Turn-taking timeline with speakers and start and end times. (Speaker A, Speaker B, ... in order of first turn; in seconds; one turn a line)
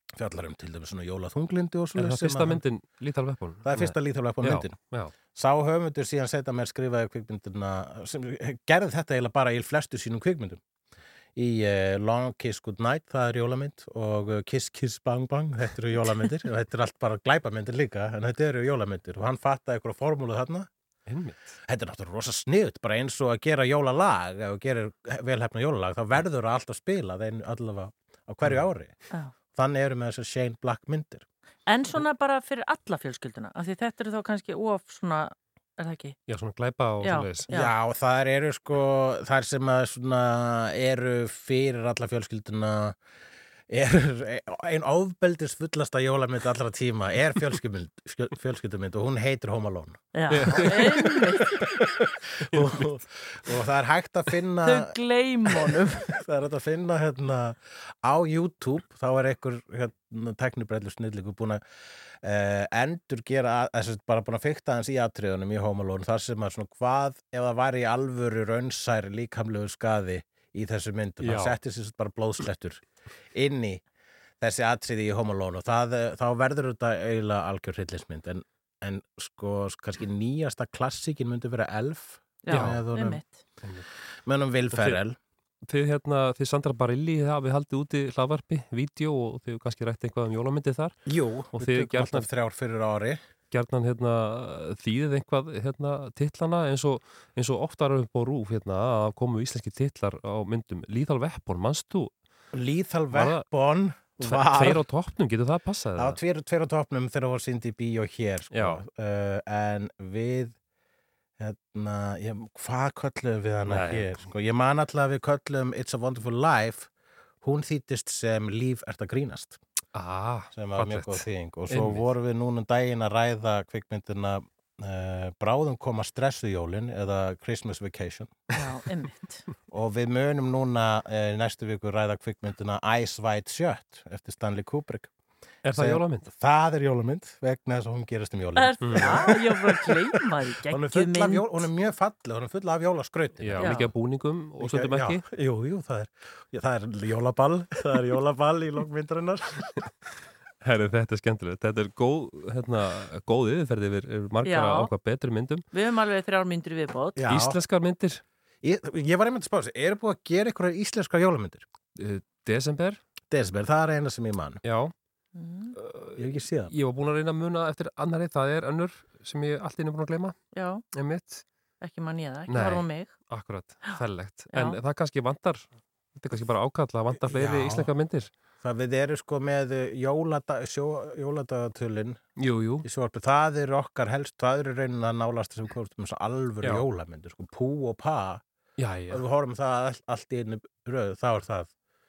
Speaker A: 0.2-2.6
Speaker B: 1.9-5.1
Speaker A: 3.6-10.6
Speaker A: 11.4-20.7
Speaker B: 21.1-21.5
Speaker A: 21.7-31.2
Speaker B: 28.4-28.7
Speaker C: 31.7-36.1
Speaker B: 36.3-37.5
Speaker C: 37.0-37.7
Speaker A: 37.5-43.0
Speaker A: 43.7-50.8
Speaker C: 50.1-51.5
Speaker B: 50.3-51.1
Speaker B: 52.5-52.9
Speaker A: 52.5-54.9
Speaker C: 54.6-56.1
Speaker A: 56.2-61.6
Speaker A: 62.2-73.8
Speaker B: 71.2-71.6
Speaker A: 74.4-83.2
Speaker C: 82.4-83.4
Speaker B: 82.5-82.8
Speaker A: 84.2-85.2
Speaker B: 84.7-85.0
Speaker B: 85.6-91.0
Speaker A: 91.0-93.2
Speaker B: 91.5-92.3
Speaker B: 93.5-102.1
Speaker A: 102.5-104.9
Speaker B: 103.1-106.2
Speaker A: 106.0-110.5
Speaker B: 108.5-108.8
Speaker A: 111.4-116.9
Speaker B: 113.7-114.3
Speaker A: 117.4-119.6
Speaker B: 119.9-122.1
Speaker A: 120.5-128.4
Speaker C: 128.6-129.4
Speaker A: 129.7-135.1
Speaker B: 135.6-136.3
Speaker A: 135.7-139.9
Speaker C: 138.6-141.7
Speaker B: 138.8-139.3
Speaker A: 140.7-143.9
Speaker B: 143.4-145.2
Speaker C: 143.6-143.9
Speaker A: 144.6-149.6
Speaker B: 150.6-155.6
Speaker C: 154.4-154.9
Speaker C: 155.7-157.2
Speaker A: 157.2-157.6
Speaker B: 157.2-158.2
Speaker A: 158.6-161.6
Speaker B: 161.9-163.0
Speaker A: 163.3-164.6
Speaker B: 164.6-164.9
Speaker C: 165.4-165.7
Speaker B: 165.7-170.4
Speaker A: 166.2-166.7
Speaker C: 170.5-170.8
Speaker B: 170.9-171.4
Speaker C: 171.8-173.2
Speaker B: 172.5-178.3
Speaker C: 174.5-174.8
Speaker A: 177.1-177.9
Speaker A: 178.6-182.3
Speaker B: 182.4-182.9
Speaker A: 182.8-188.4
Speaker B: 188.8-189.2
Speaker A: 189.1-191.7